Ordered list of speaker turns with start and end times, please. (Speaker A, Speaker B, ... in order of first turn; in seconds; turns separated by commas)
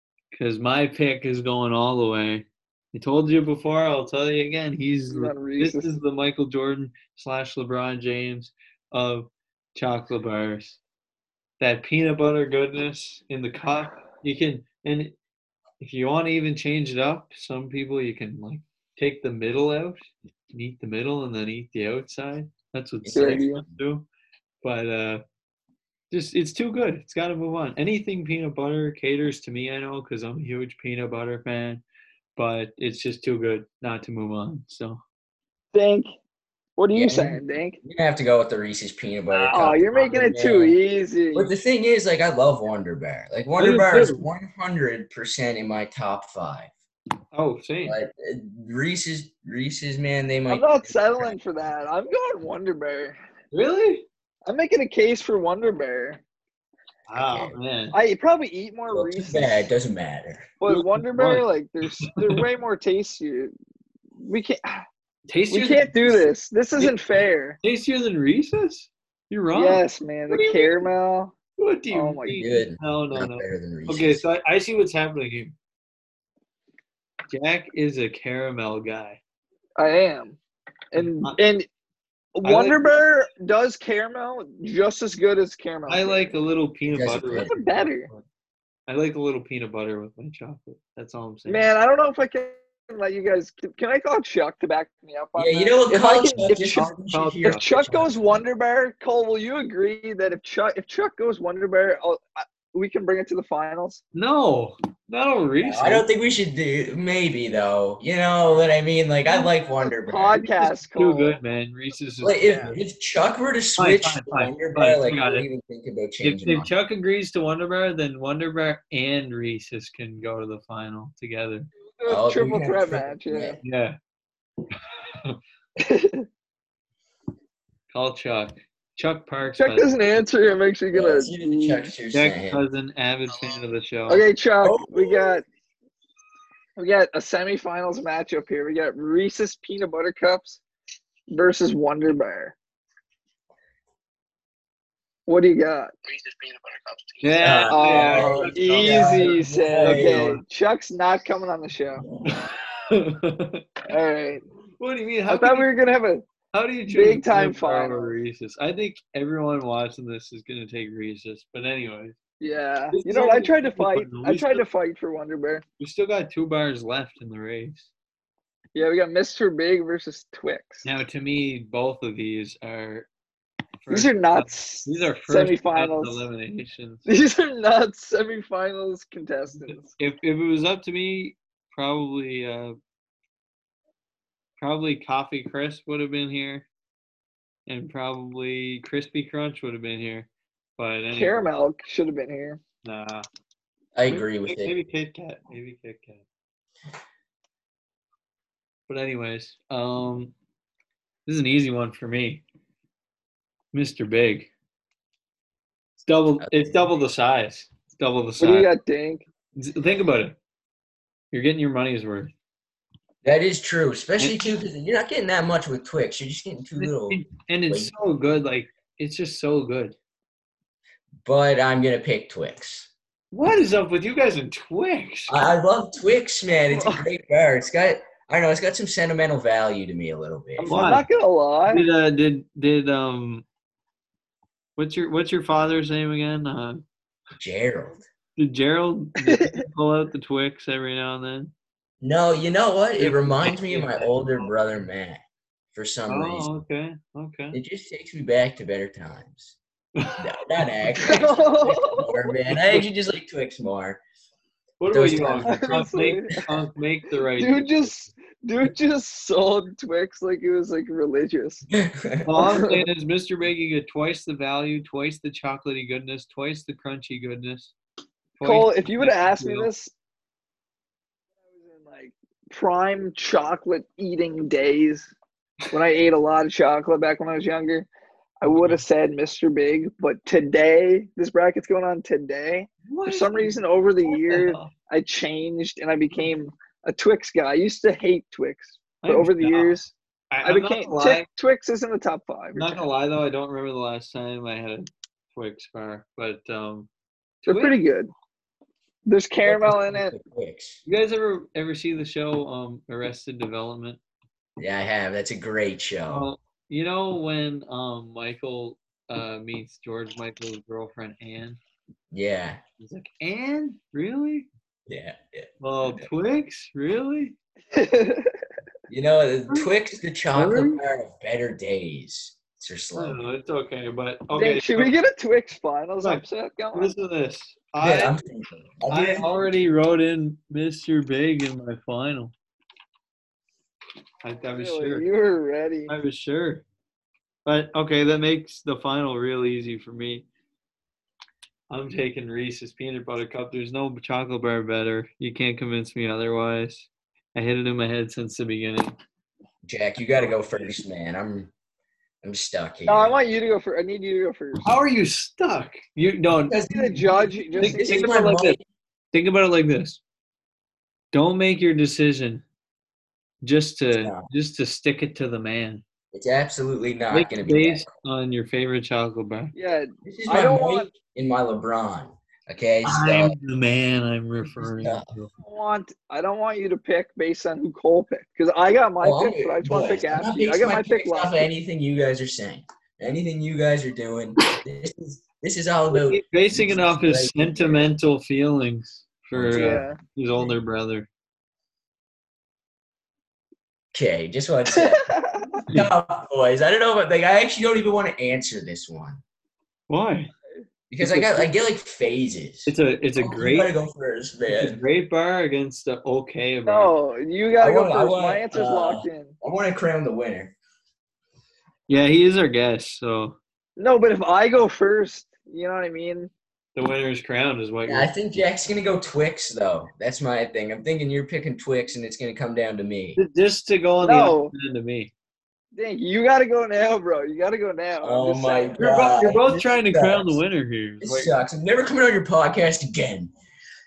Speaker A: 0.3-10.8, Speaker B: 5.1-6.0, Speaker A: 11.6-15.1, Speaker A: 15.8-24.1, Speaker C: 23.0-23.7, Speaker B: 23.1-23.6, Speaker A: 24.6-25.2, Speaker A: 26.1-31.8, Speaker A: 32.4-35.0, Speaker B: 35.7-36.1, Speaker B: 36.8-37.8, Speaker C: 36.9-40.8, Speaker B: 39.5-41.5, Speaker C: 41.3-46.7, Speaker A: 43.6-44.3, Speaker A: 47.3-48.0, Speaker C: 47.8-51.3, Speaker B: 50.5-53.2, Speaker A: 53.5-54.0, Speaker B: 54.5-56.2, Speaker A: 57.1-58.0, Speaker C: 57.1-57.5, Speaker B: 57.9-59.7, Speaker C: 58.9-60.5, Speaker B: 60.6-63.5, Speaker A: 60.6-61.5, Speaker A: 62.0-62.4, Speaker B: 64.2-64.8, Speaker A: 65.3-66.2, Speaker B: 65.5-67.6, Speaker A: 67.6-70.8, Speaker B: 69.5-71.3, Speaker A: 71.6-75.5, Speaker B: 71.9-72.5, Speaker C: 72.3-74.2, Speaker A: 77.3-79.2, Speaker B: 79.8-80.4, Speaker B: 80.9-81.7, Speaker A: 80.9-81.4, Speaker B: 82.3-86.3, Speaker A: 82.4-82.8, Speaker A: 85.9-88.2, Speaker C: 86.8-87.5, Speaker B: 87.4-88.1, Speaker A: 88.9-91.7, Speaker B: 91.5-96.9, Speaker C: 95.3-98.4, Speaker A: 96.3-97.7, Speaker B: 97.4-104.0, Speaker A: 104.1-106.0, Speaker C: 105.6-110.4, Speaker B: 109.8-111.4, Speaker A: 110.4-112.8, Speaker C: 112.2-116.7, Speaker A: 113.8-115.5, Speaker A: 116.2-121.7, Speaker B: 122.0-123.6, Speaker C: 122.1-123.6, Speaker A: 123.6-124.0, Speaker B: 125.8-126.3, Speaker A: 127.9-129.9, Speaker B: 129.6-131.9, Speaker C: 130.9-132.6, Speaker A: 132.1-134.2, Speaker B: 134.1-135.4, Speaker C: 134.6-135.4, Speaker B: 136.8-140.6, Speaker B: 141.3-142.5, Speaker B: 145.3-146.9, Speaker A: 147.2-150.4, Speaker C: 147.4-150.3, Speaker B: 147.7-152.0, Speaker C: 152.1-152.4, Speaker A: 152.2-153.7, Speaker B: 153.9-154.4, Speaker A: 154.8-155.7, Speaker B: 155.3-156.2, Speaker A: 156.5-162.2, Speaker B: 156.9-158.2, Speaker B: 162.4-165.6, Speaker A: 162.9-164.6, Speaker A: 165.8-167.9, Speaker B: 168.7-170.8, Speaker A: 170.8-173.1, Speaker A: 173.8-177.1, Speaker B: 173.9-176.2, Speaker B: 177.1-179.9, Speaker A: 179.5-182.8, Speaker A: 184.6-186.7, Speaker A: 187.7-191.5, Speaker B: 191.1-192.6, Speaker A: 192.8-193.2, Speaker C: 193.9-194.7, Speaker A: 194.1-196.2, Speaker A: 198.9-200.3, Speaker A: 201.2-202.4, Speaker A: 203.7-204.5, Speaker A: 206.0-208.7, Speaker C: 206.4-206.9, Speaker B: 208.4-209.2, Speaker A: 209.5-210.3, Speaker A: 211.3-212.3, Speaker C: 213.2-217.9, Speaker A: 214.2-214.4, Speaker A: 216.8-219.9, Speaker C: 221.2-222.9, Speaker A: 223.3-225.4, Speaker C: 225.3-231.0, Speaker B: 226.7-227.1, Speaker B: 230.6-231.8, Speaker A: 230.6-231.1, Speaker A: 231.7-233.4, Speaker A: 234.8-236.8, Speaker C: 237.3-238.0, Speaker A: 238.3-241.5, Speaker B: 239.2-239.6, Speaker C: 242.0-245.2, Speaker A: 243.0-244.8, Speaker C: 245.7-246.5, Speaker A: 246.1-247.6, Speaker C: 247.5-249.6, Speaker A: 249.9-250.2, Speaker C: 250.2-254.0, Speaker B: 251.0-252.2, Speaker A: 252.5-252.8, Speaker A: 254.8-258.1, Speaker C: 254.9-255.8, Speaker B: 255.4-256.4, Speaker B: 257.4-261.6, Speaker C: 261.7-262.4, Speaker A: 262.2-267.7, Speaker B: 262.4-262.9, Speaker A: 268.4-269.7, Speaker B: 268.4-269.9, Speaker B: 271.6-275.1, Speaker B: 275.7-277.9, Speaker B: 278.4-289.9, Speaker A: 278.4-278.8, Speaker A: 282.9-284.7, Speaker A: 289.0-289.8, Speaker A: 290.3-291.3, Speaker B: 290.4-292.8, Speaker A: 292.5-296.9, Speaker A: 297.4-297.8, Speaker B: 297.4-298.1, Speaker B: 299.1-300.1, Speaker C: 299.4-300.8, Speaker A: 300.8-304.0, Speaker C: 304.6-306.3, Speaker A: 306.1-311.6, Speaker C: 312.1-312.6, Speaker A: 312.8-314.5, Speaker C: 314.9-316.1, Speaker A: 315.6-317.4, Speaker B: 317.7-318.3, Speaker C: 318.9-323.2, Speaker A: 320.3-320.8, Speaker A: 322.9-324.9, Speaker B: 324.3-326.9, Speaker A: 326.7-328.1, Speaker C: 327.8-329.3, Speaker A: 328.9-332.3, Speaker A: 334.2-335.1, Speaker B: 334.5-335.9, Speaker A: 335.9-336.6, Speaker A: 337.4-340.2, Speaker A: 341.7-348.9, Speaker C: 349.6-351.5, Speaker C: 352.2-353.2, Speaker B: 352.9-354.7, Speaker A: 354.6-356.6, Speaker C: 356.4-358.6, Speaker B: 356.7-358.5, Speaker A: 357.6-358.6, Speaker A: 359.1-360.0, Speaker A: 361.1-362.4, Speaker A: 363.4-365.8, Speaker C: 364.0-364.3, Speaker C: 366.1-367.9, Speaker A: 367.1-369.5, Speaker B: 369.5-370.9, Speaker C: 370.0-373.4, Speaker A: 372.8-375.3, Speaker C: 374.6-375.2, Speaker B: 375.4-381.5, Speaker C: 379.0-387.9, Speaker A: 385.9-391.1, Speaker C: 389.3-390.6, Speaker B: 389.5-390.0, Speaker C: 393.9-395.1, Speaker B: 394.7-395.6, Speaker A: 395.7-395.9, Speaker C: 395.7-399.2, Speaker A: 399.9-400.3, Speaker C: 400.9-404.8, Speaker B: 401.0-401.5, Speaker A: 402.6-403.7, Speaker A: 404.5-406.9, Speaker B: 406.7-409.3, Speaker C: 407.6-410.5, Speaker A: 411.9-413.4, Speaker B: 413.8-416.3, Speaker A: 416.7-418.1, Speaker C: 417.8-423.2, Speaker A: 423.1-425.1, Speaker B: 424.0-424.5, Speaker B: 425.7-428.9, Speaker C: 428.0-430.4, Speaker A: 428.8-431.3, Speaker C: 431.0-433.3